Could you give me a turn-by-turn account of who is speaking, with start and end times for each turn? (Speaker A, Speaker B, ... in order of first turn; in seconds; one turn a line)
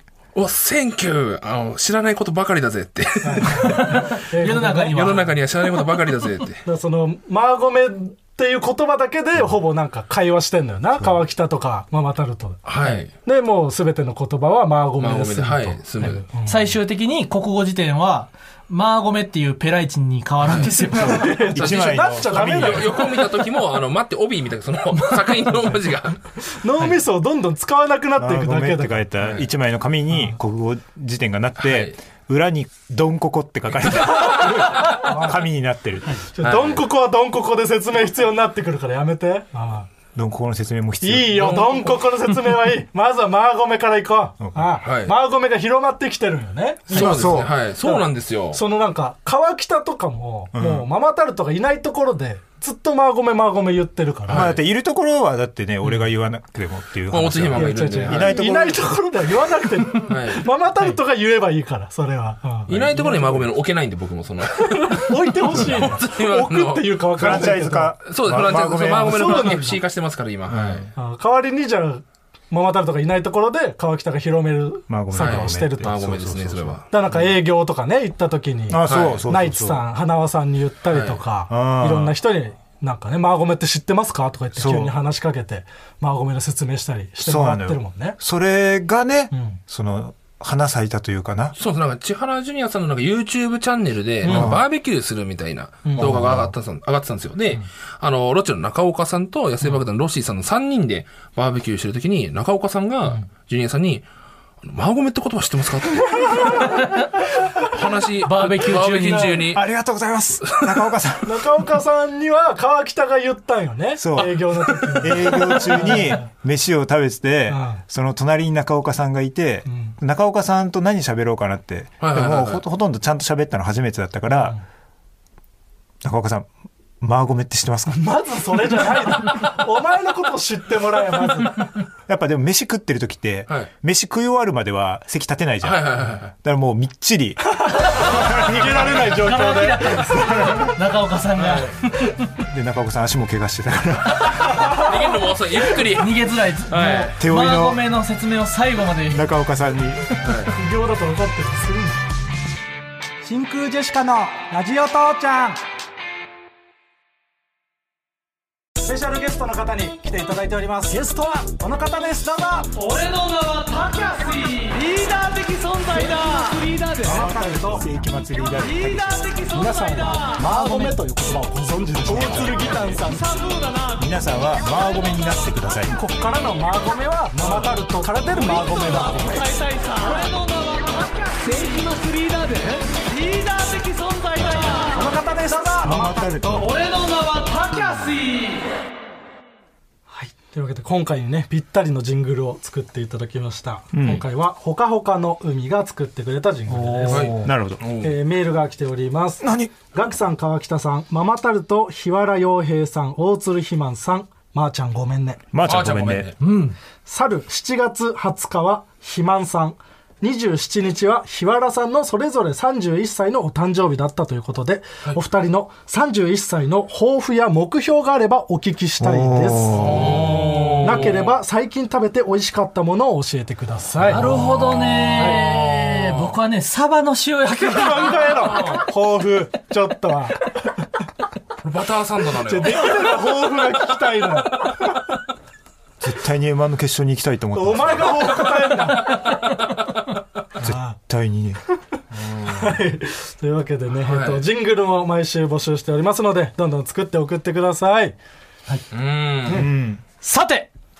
Speaker A: 0.3-4.1
Speaker B: 3.2-5.3
Speaker C: 3.6-5.3
Speaker A: 4.7-6.6
Speaker B: 6.7-16.6
Speaker A: 12.7-13.1
Speaker A: 15.0-16.3
Speaker C: 16.5-21.3
Speaker A: 20.4-26.2
Speaker B: 20.8-23.2
Speaker D: 21.5-22.9
Speaker B: 26.5-29.1
Speaker D: 28.2-36.2
Speaker A: 31.6-31.9
Speaker B: 34.2-35.4
Speaker B: 36.2-39.9
Speaker A: 36.4-36.8
Speaker D: 40.1-41.7
Speaker B: 41.0-54.6
Speaker A: 41.4-42.0
Speaker D: 44.4-44.8
Speaker A: 44.8-45.1
Speaker A: 46.9-48.6
Speaker D: 46.9-47.5
Speaker D: 50.5-50.9
Speaker A: 54.3-54.6
Speaker D: 54.3-58.9
Speaker A: 57.1-58.5
Speaker B: 57.5-63.5
Speaker A: 60.0-60.5
Speaker A: 62.7-67.5
Speaker B: 64.7-68.0
Speaker D: 67.2-69.6
Speaker A: 68.0-70.9
Speaker B: 69.0-69.8
Speaker D: 70.5-70.9
Speaker B: 71.0-75.9
Speaker D: 74.9-77.2
Speaker A: 75.2-76.9
Speaker B: 76.9-88.2
Speaker D: 78.7-79.8
Speaker A: 78.9-79.2
Speaker A: 80.9-81.2
Speaker D: 81.5-82.2
Speaker D: 84.5-84.9
Speaker D: 87.2-91.6
Speaker B: 89.3-89.6
Speaker A: 91.6-104.0
Speaker B: 94.2-94.5
Speaker D: 94.2-94.6
Speaker B: 95.8-96.1
Speaker D: 96.0-96.5
Speaker A: 104.6-106.7
Speaker C: 106.6-107.0
Speaker A: 107.6-109.6
Speaker C: 108.2-109.4
Speaker B: 109.1-109.4
Speaker D: 109.5-111.5
Speaker A: 110.4-110.8
Speaker B: 111.2-116.2
Speaker D: 114.0-114.3
Speaker A: 114.2-115.5
Speaker D: 114.9-124.6
Speaker B: 117.5-117.8
Speaker B: 119.7-119.9
Speaker A: 122.0-122.6
Speaker D: 126.0-126.5
Speaker D: 127.0-128.0
Speaker B: 127.9-131.7
Speaker D: 132.1-138.8
Speaker A: 135.6-136.3
Speaker B: 137.6-140.7
Speaker C: 137.8-141.7
Speaker D: 140.3-140.6
Speaker A: 141.4-141.7
Speaker D: 142.2-144.8
Speaker B: 144.6-144.9
Speaker A: 144.6-147.2
Speaker C: 145.8-149.3
Speaker D: 147.2-147.8
Speaker D: 149.1-150.5
Speaker A: 150.2-150.5
Speaker B: 150.5-152.0
Speaker B: 153.2-155.6
Speaker B: 158.8-162.7
Speaker C: 162.8-167.3
Speaker B: 165.9-167.9
Speaker D: 167.0-169.3
Speaker C: 168.4-171.0
Speaker B: 169.5-173.3
Speaker D: 172.0-173.0
Speaker C: 172.2-174.1
Speaker D: 174.0-175.9
Speaker B: 175.9-179.5
Speaker C: 178.3-185.1
Speaker D: 184.4-184.9
Speaker B: 184.9-186.6
Speaker D: 185.8-186.7
Speaker C: 186.4-188.7
Speaker B: 190.1-197.4
Speaker D: 193.9-194.2
Speaker C: 196.7-197.5
Speaker A: 197.0-198.1
Speaker D: 197.4-197.8
Speaker B: 198.0-205.4
Speaker D: 199.4-199.8
Speaker D: 205.5-206.3
Speaker A: 205.6-206.4
Speaker C: 206.4-206.8
Speaker B: 207.1-224.3
Speaker D: 219.0-220.5
Speaker A: 219.8-221.4
Speaker D: 224.1-225.1
Speaker C: 224.1-228.6
Speaker A: 225.1-226.3
Speaker B: 227.6-230.6
Speaker A: 228.2-228.8
Speaker A: 231.6-233.2
Speaker B: 232.5-235.0
Speaker D: 236.0-238.5
Speaker B: 237.5-239.3
Speaker D: 240.6-241.6
Speaker B: 240.6-240.9
Speaker B: 242.4-248.2
Speaker A: 244.0-244.4
Speaker A: 248.9-249.7
Speaker D: 249.5-250.0
Speaker C: 250.2-250.7